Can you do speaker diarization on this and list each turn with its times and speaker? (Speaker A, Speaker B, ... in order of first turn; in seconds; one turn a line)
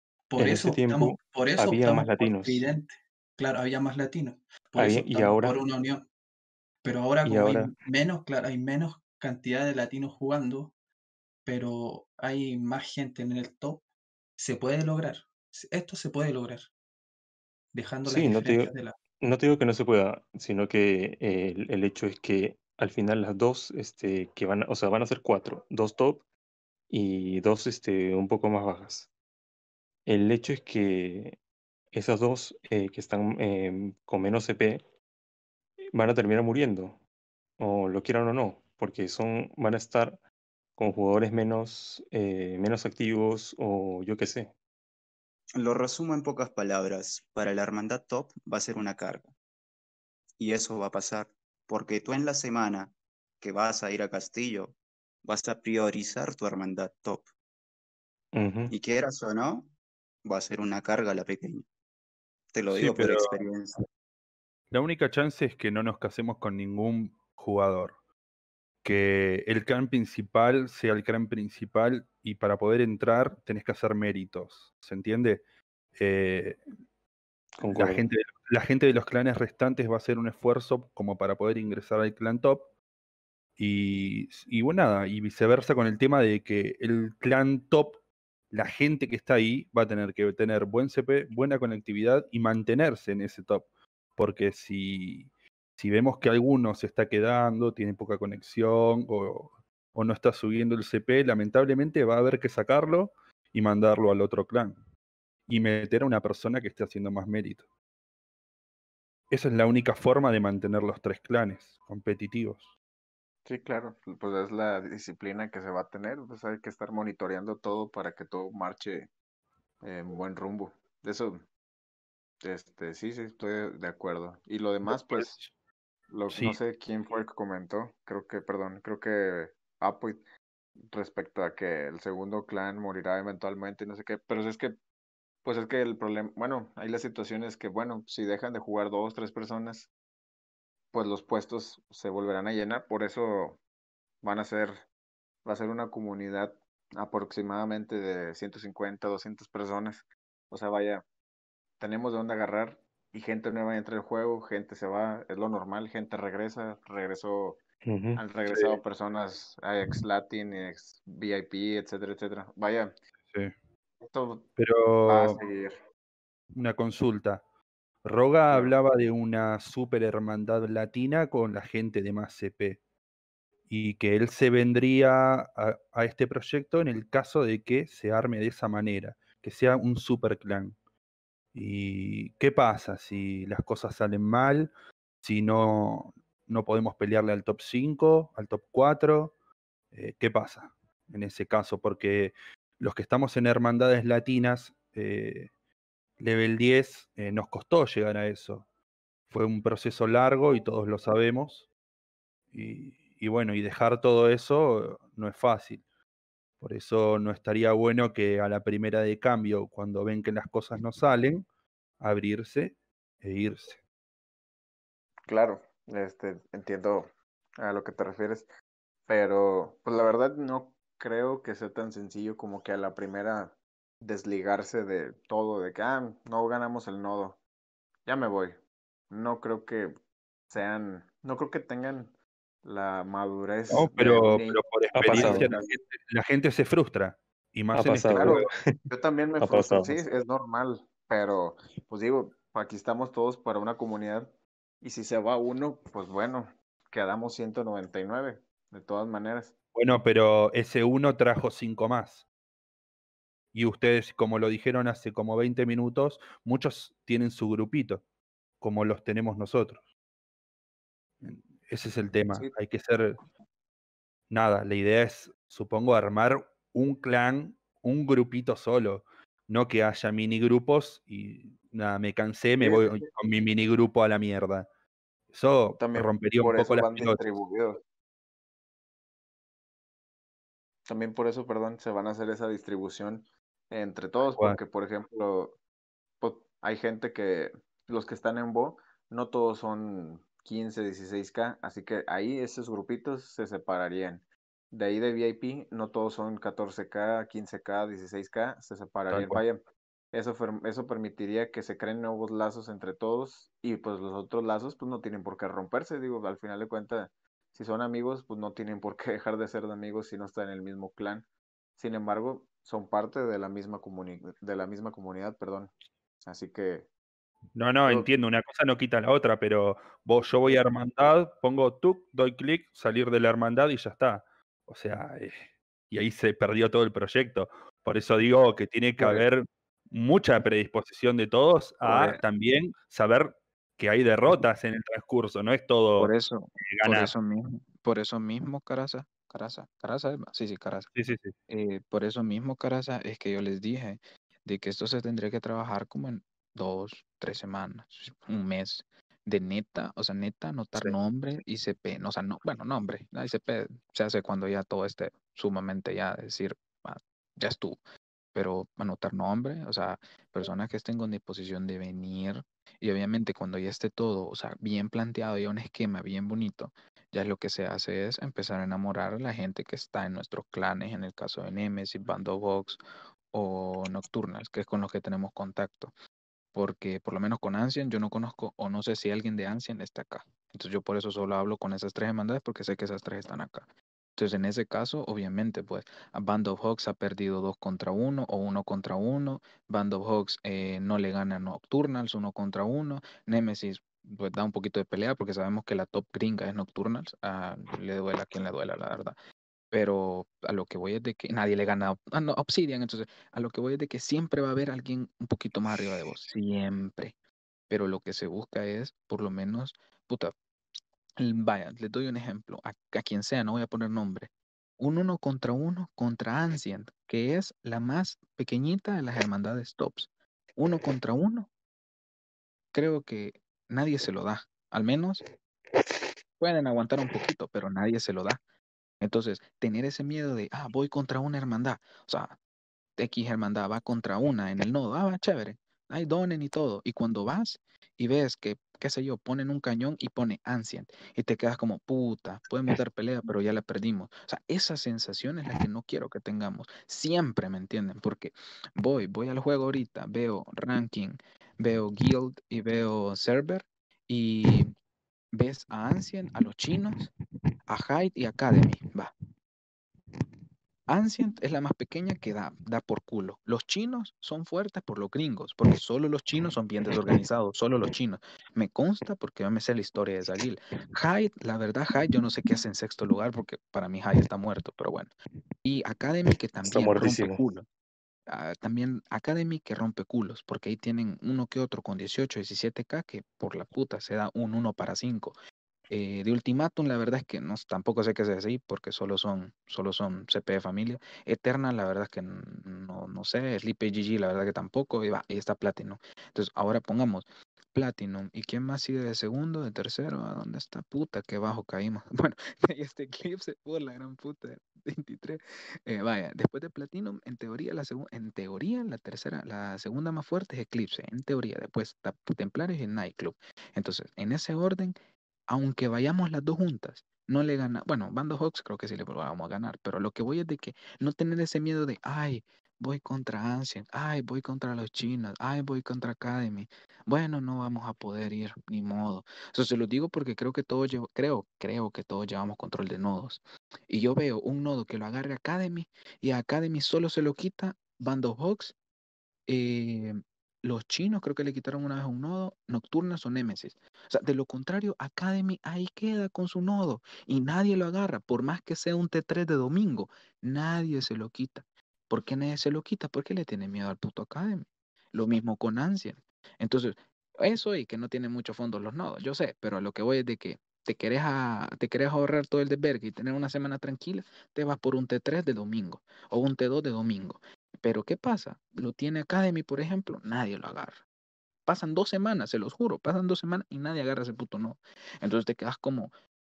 Speaker A: 0.3-6.0
Speaker B: 0.3-2.7
Speaker B: 4.8-5.6
Speaker A: 6.8-10.7
Speaker B: 7.2-7.7
Speaker A: 11.4-13.8
Speaker A: 14.4-16.7
Speaker A: 17.7-18.9
Speaker B: 18.0-26.2
Speaker B: 26.9-29.1
Speaker B: 30.1-31.4
Speaker B: 31.9-34.8
Speaker B: 35.9-37.0
Speaker B: 37.6-40.2
Speaker B: 40.8-44.5
Speaker C: 45.6-49.3
Speaker C: 50.4-54.7
Speaker C: 55.2-57.3
Speaker B: 58.3-58.7
Speaker C: 58.7-59.7
Speaker C: 60.2-61.6
Speaker C: 62.5-63.8
Speaker D: 62.7-63.3
Speaker D: 64.7-68.0
Speaker D: 68.8-75.4
Speaker D: 76.0-76.6
Speaker B: 77.6-78.1
Speaker D: 77.7-82.7
Speaker D: 83.6-88.0
Speaker D: 88.5-104.8
Speaker D: 105.5-107.7
Speaker D: 109.3-112.7
Speaker E: 113.4-119.1
Speaker E: 119.8-121.4
Speaker E: 122.4-125.3
Speaker D: 124.9-125.5
Speaker E: 126.1-130.2
Speaker D: 126.3-126.6
Speaker E: 130.9-134.8
Speaker E: 135.4-139.9
Speaker E: 140.9-143.6
Speaker E: 144.2-144.8
Speaker E: 145.4-151.0
Speaker E: 151.8-157.6
Speaker B: 157.8-158.2
Speaker E: 158.1-162.9
Speaker D: 158.4-158.8
Speaker E: 164.0-164.5
Speaker D: 164.6-165.4
Speaker E: 165.0-165.8
Speaker D: 166.5-167.4
Speaker D: 168.0-172.8
Speaker E: 168.5-168.8
Speaker D: 173.7-180.8
Speaker D: 181.5-184.7
Speaker D: 185.2-189.3
Speaker D: 189.9-195.5
Speaker D: 196.2-198.7
Speaker D: 199.3-201.7
Speaker D: 202.5-205.8
Speaker D: 206.6-211.4
Speaker D: 212.0-213.8
Speaker E: 215.3-218.5
Speaker E: 219.1-227.4
Speaker E: 228.1-229.9
Speaker E: 230.5-235.8
Speaker D: 233.7-238.5
Speaker B: 234.9-235.5
Speaker B: 237.7-238.6
Speaker E: 238.1-249.5
Speaker B: 239.4-240.0
Speaker D: 249.7-252.2
Speaker D: 253.5-258.0
Speaker D: 258.6-259.8
Speaker D: 261.2-263.2
Speaker D: 264.3-274.7
Speaker E: 272.6-273.1
Speaker D: 275.3-277.2
Speaker E: 275.8-277.8
Speaker E: 280.9-285.6
Speaker E: 286.2-316.9
Speaker D: 299.1-299.4
Speaker D: 317.5-337.1
Speaker E: 317.8-318.1
Speaker F: 331.8-332.2
Speaker F: 336.0-340.9
Speaker D: 340.9-341.3
Speaker F: 341.5-357.8
Speaker F: 358.3-375.9
Speaker F: 376.5-399.2
Speaker F: 399.7-407.1
Speaker F: 407.7-410.3
Speaker F: 411.2-414.3
Speaker F: 414.8-421.5
Speaker F: 422.7-425.2
Speaker F: 426.4-428.4
Speaker F: 429.0-432.4
Speaker F: 433.0-454.7
Speaker F: 455.3-457.1
Speaker F: 457.7-459.1
Speaker F: 460.9-475.1
Speaker F: 475.6-477.6
Speaker B: 476.6-477.4
Speaker F: 478.3-485.4
Speaker F: 485.9-515.0
Speaker F: 515.5-538.7
Speaker F: 539.5-571.0
Speaker F: 571.6-576.1